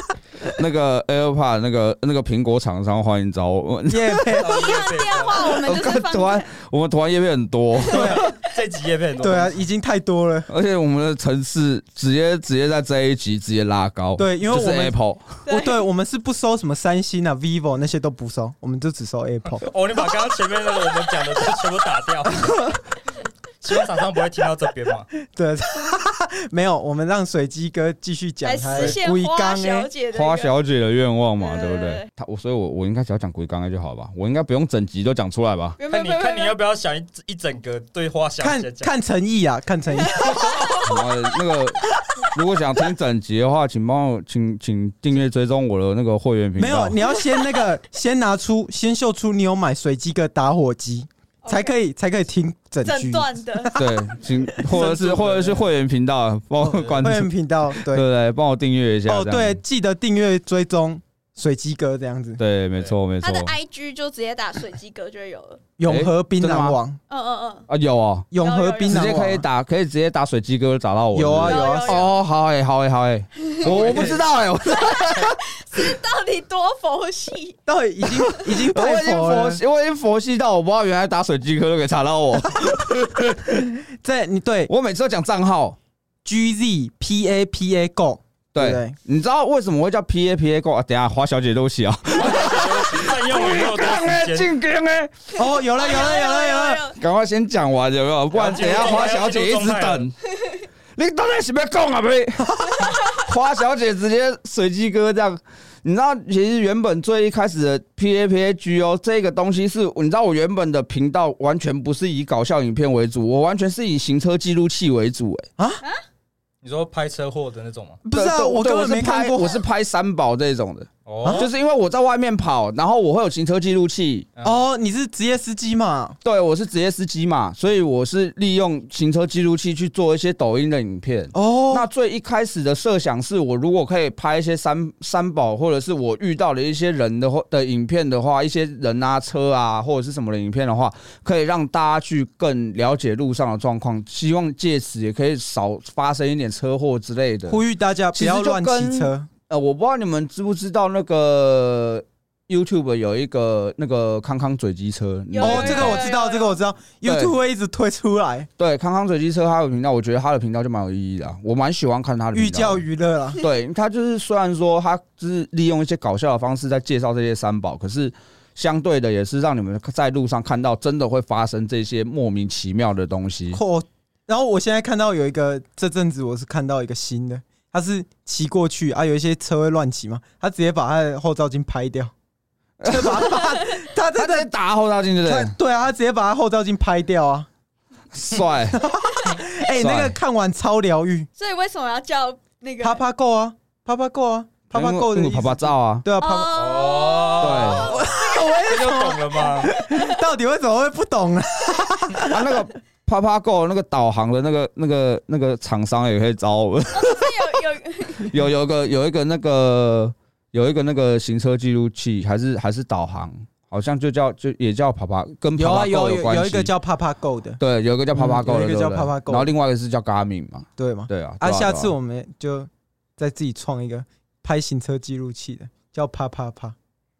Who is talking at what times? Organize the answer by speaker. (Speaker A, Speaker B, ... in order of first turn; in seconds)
Speaker A: 0.5-4.4, 5.4-8.2, 10.5-15.3, 30.1-35.8, 40.8-41.8, 42.3-47.0, 53.7-59.6, 62.4-63.5, 65.8-66.8, 67.7-68.3, 68.8-75.4, 78.6-83.6, 84.7-85.8, 88.5-95.1, 97.0-100.2, 101.0-115.5, 118.1-124.2, 126.2-147.6, 148.1-156.1, 157.0-157.3, 158.6-162.8, 163.4-173.6, 182.8-183.2, 184.1-185.5, 188.1-188.8, 189.8-190.2, 194.7-196.1, 197.4-197.9, 202.3-207.5, 208.2-216.7, 217.6-221.9
Speaker B: 3.9-4.6, 7.9-8.2, 9.2-10.5, 14.2-19.7, 25.2-29.9, 38.4-40.5, 46.5-54.8, 56.6-58.0, 59.0-62.4, 65.8-67.0, 68.3-69.5, 71.1-72.0, 73.7-74.2, 77.7-79.6, 84.0-84.7, 86.2-89.0, 95.3-96.8, 115.6-115.8, 118.0-119.6, 121.2-121.5, 124.4-126.2, 131.3-131.8, 147.5-149.3, 155.4-158.5, 162.3-163.4, 173.5-182.1, 182.8-184.5, 185.2-187.5, 188.7-191.3, 192.8-196.7, 197.8-202.6, 215.5-217.6, 218.1-219.5, 220.8-226.8
Speaker C: 4.4-5.5, 8.2-9.6, 19.6-22.8, 23.6-25.1, 28.7-29.0, 35.9-38.9, 54.7-55.7, 73.6-74.2, 92.2-94.5, 98.3-100.1, 116.6-118.0, 121.0-121.5, 124.4-124.6, 196.5-198.1, 198.6-199.7
Speaker D: 4.4-6.5, 15.4-15.8, 28.4-30.5, 31.4-32.1, 35.8-36.6, 40.2-41.1, 51.4-51.7, 52.8-53.7, 63.2-65.7, 67.1-67.7, 68.3-69.2, 71.4-72.1, 74.6-77.6, 95.8-97.0, 155.3-156.6, 191.4-193.0, 196.2-198.7, 199.4-200.1, 206.9-208.3